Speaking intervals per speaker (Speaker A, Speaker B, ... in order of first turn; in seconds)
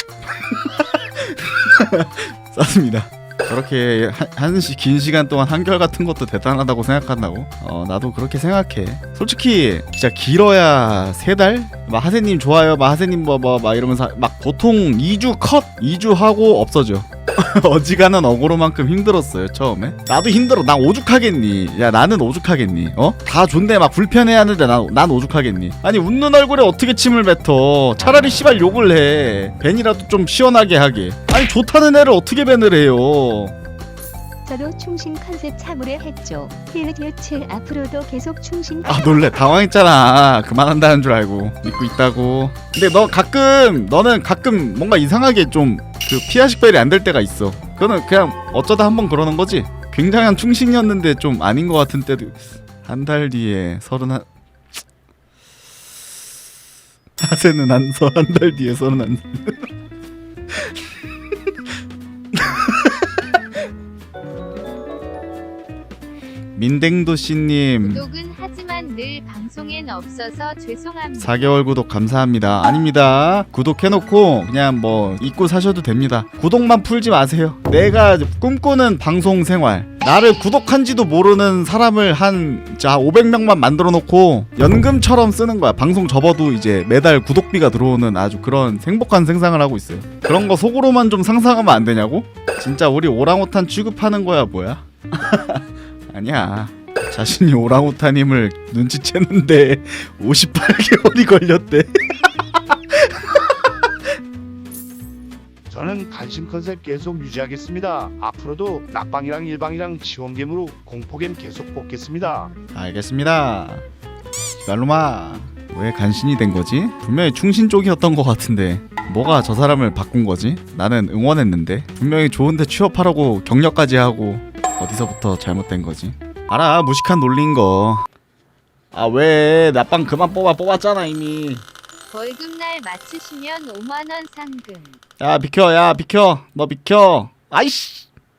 Speaker A: 0.4-33.5, 38.9-54.3, 57.2-59.6, 62.4-62.9, 66.5-68.1, 71.2-101.9, 102.5-103.5, 112.7-113.8, 114.6-128.1, 128.9-131.7, 135.2-138.1
Speaker B: 34.5-39.0
Speaker C: 67.8-71.3, 132.1-134.9
Speaker D: 105.7-112.5